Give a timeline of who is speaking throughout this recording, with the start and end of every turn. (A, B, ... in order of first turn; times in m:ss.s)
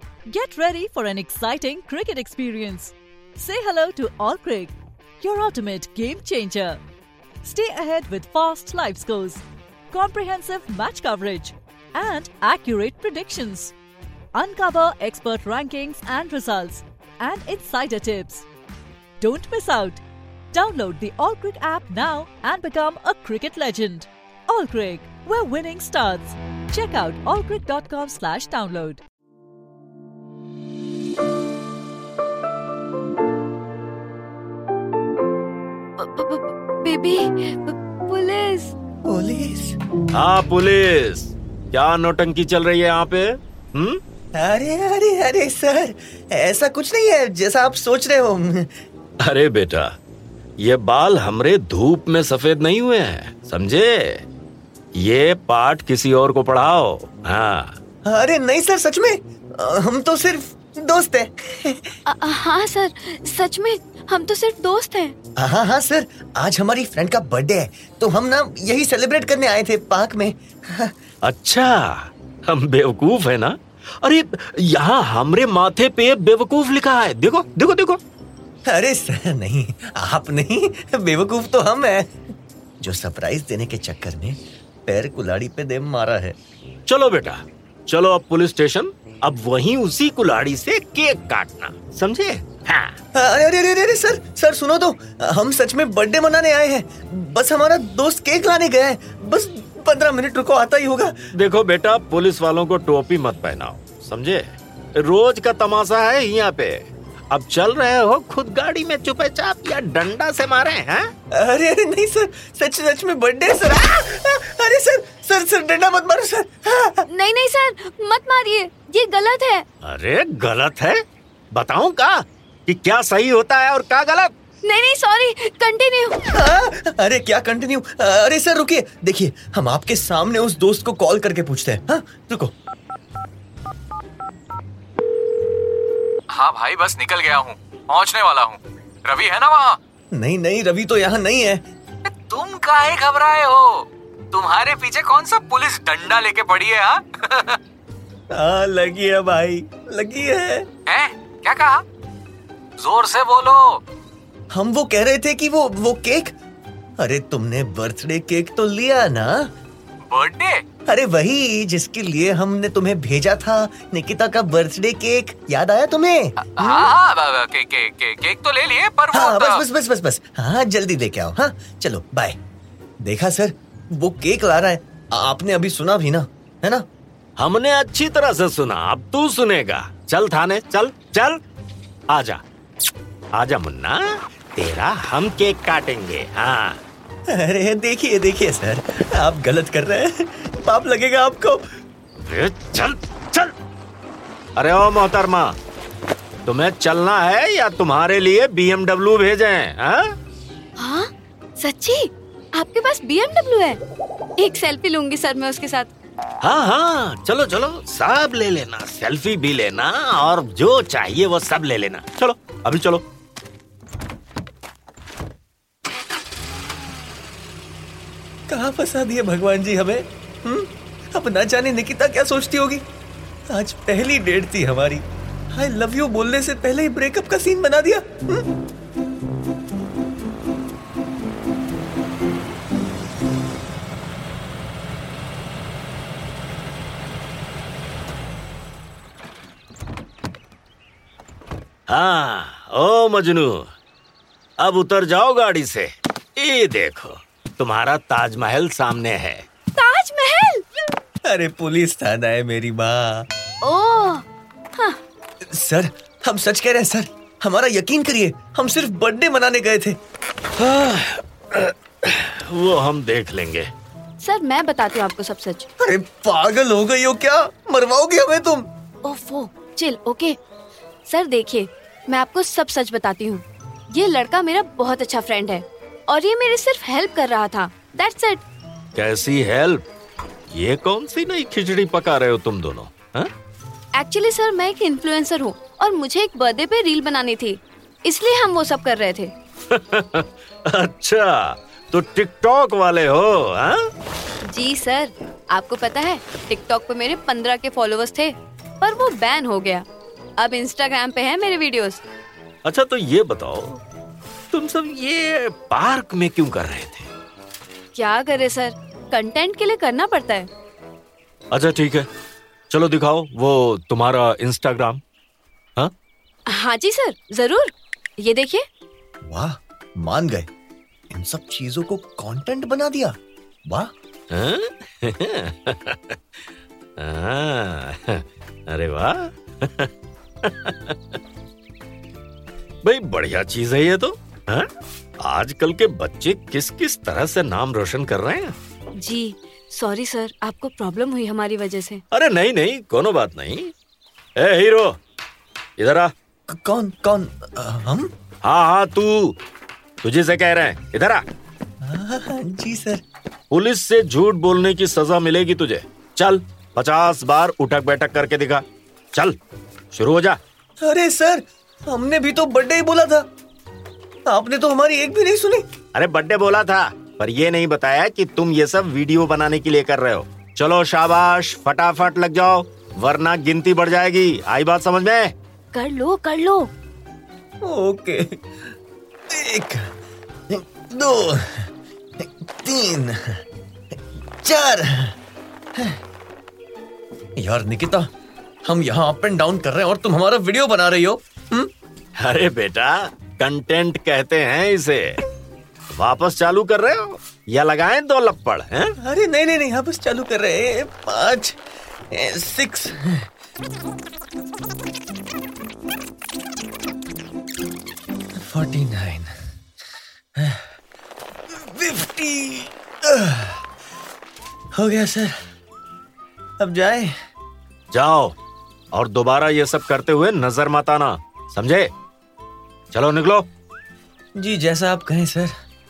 0:00.2-0:06.8 A
0:07.4-0:13.7 A
0:14.3-0:18.5 A
0:19.2-0:29.0 A
0:36.0-0:38.7 B
0:39.0-0:39.8 C
0:40.1-0:44.0 D
0:44.3-0:48.8 C
0:49.2-0:50.0 D
0:50.6-0:54.2 D
0:54.9-0:57.8 D
0:58.0-1:01.9 C
1:02.1-1:05.2 B
1:05.4-1:10.9 C
1:11.2-1:18.0 D
1:18.6-1:22.1 C
1:22.8-1:26.4 C
1:26.9-1:33.0 D
1:33.1-1:41.3 C
1:41.3-1:51.1 D
1:51.3-1:57.0 C
1:57.1-1:59.6 B
1:59.8-2:01.0 D
2:01.5-2:04.3 D
2:04.6-2:06.2 B
2:06.3-2:12.5 C
2:16.3-2:19.8 E
2:20.1-2:21.6 C
2:22.2-2:27.6 E
2:28.3-2:30.6 C
2:30.8-2:31.8 E
2:32.8-2:33.8 E
2:34.5-2:36.3 C
2:37.0-2:39.5 C
2:40.1-2:40.6 E
2:40.9-2:46.4 C
2:46.5-2:49.4 E
2:49.1-2:52.4 C
2:53.0-2:56.8 C
2:57.4-3:01.4 D
3:02.1-3:02.4 D
3:03.3-3:06.8 D
3:07.3-3:11.7 C
3:12.2-3:13.5 D
3:14.6-3:15.6 D
3:16.4-3:20.1 D
3:20.8-3:23.8 B
3:24.4-3:25.9 B
3:26.4-3:33.0 D
3:38.5-3:42.8 C
3:43.5-3:48.4 C
4:01.9-4:03.7 D
4:04.6-4:09.4 D
4:09.8-4:10.6 B
4:11.2-4:13.3 C
4:13.6-4:14.2 B
4:15.5-4:20.0 C
4:20.6-4:23.7 D
4:24.2-4:25.7 B
4:25.8-4:28.7 C
4:29.0-4:30.4 B
4:31.1-4:38.4 B
4:38.9-4:39.8 D
4:40.5-4:43.3 D
4:43.9-4:49.3 B
4:49.7-4:53.8 D
4:54.4-4:59.8 B
5:00.4-5:02.0 B
5:02.6-5:03.8 D
5:04.5-5:07.1 D
5:07.9-5:10.5 B
5:11.5-5:12.1 D
5:12.7-5:15.0 D
5:16.5-5:18.6 B
5:19.2-5:20.5 C
5:21.1-5:23.2 C
5:23.7-5:23.9 C
5:24.3-5:26.4 D
5:27.0-5:29.9 D
5:30.4-5:31.2 D
5:32.8-5:38.5 D
5:39.0-5:42.0 B
5:42.1-5:43.7 D
5:44.4-5:45.0 D
5:45.8-5:46.1 D
5:46.5-5:48.1 C
5:48.4-5:49.4 D
5:50.0-5:51.2 D
5:51.8-5:53.0 C
5:53.5-5:59.4 D
5:59.9-6:00.4 D
6:00.8-6:03.2 C
6:04.2-6:05.7 C
6:05.9-6:15.3 D
6:15.7-6:16.7 B
6:17.6-6:18.7 C
6:19.3-6:19.9 C
6:20.5-6:25.2 C
6:27.4-6:28.1 C
6:28.6-6:31.7 C
6:32.2-6:35.2 D
6:35.9-6:38.9 D
6:39.0-6:41.6 C
6:42.1-6:43.3 C
6:48.4-6:49.3 C
6:50.4-6:50.7 C
6:51.5-6:53.6 C
6:54.7-6:55.4 C
6:56.6-6:57.1 C
6:57.9-6:58.4 D
6:58.9-7:01.9 D
7:02.9-7:03.5 D
7:04.4-7:05.5 C